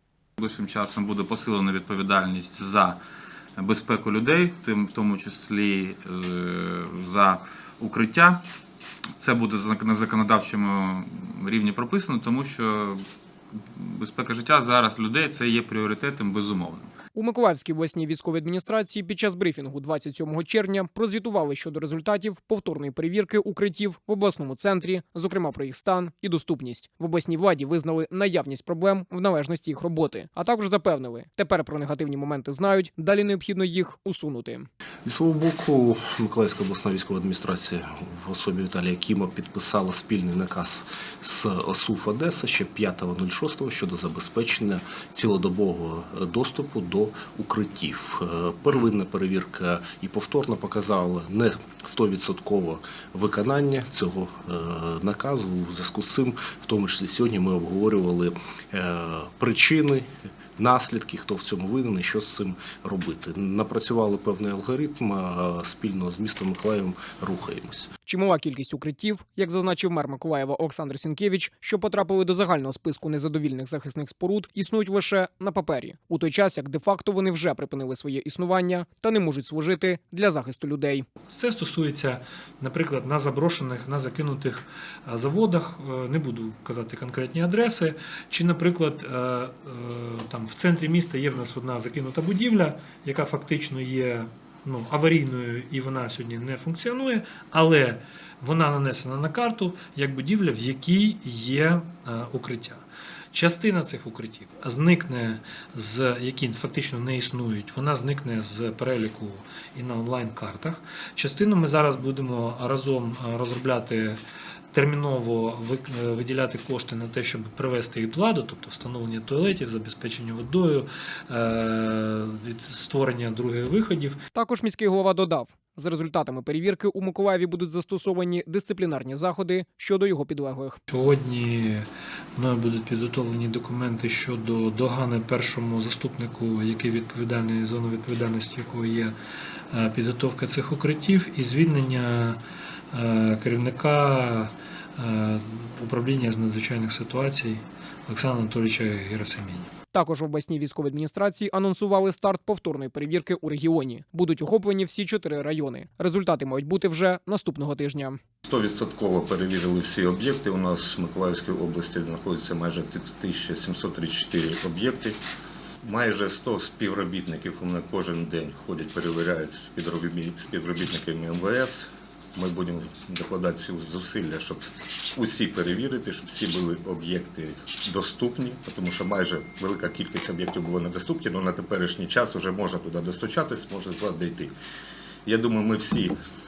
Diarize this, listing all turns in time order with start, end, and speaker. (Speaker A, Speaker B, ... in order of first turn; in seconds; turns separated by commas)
Speaker A: 0.4-3.0, Speaker A: 3.6-8.4, Speaker A: 9.2-13.0, Speaker A: 13.6-16.9, Speaker B: 17.1-34.7, Speaker C: 35.0-67.9, Speaker B: 68.1-81.1, Speaker D: 81.3-114.2, Speaker D: 114.7-124.2, Speaker B: 124.3-130.8, Speaker D: 130.9-139.2, Speaker D: 139.7-142.4, Speaker D: 142.9-149.7, Speaker B: 149.9-158.2, Speaker E: 158.4-165.2, Speaker E: 165.8-184.5, Speaker E: 185.3-186.2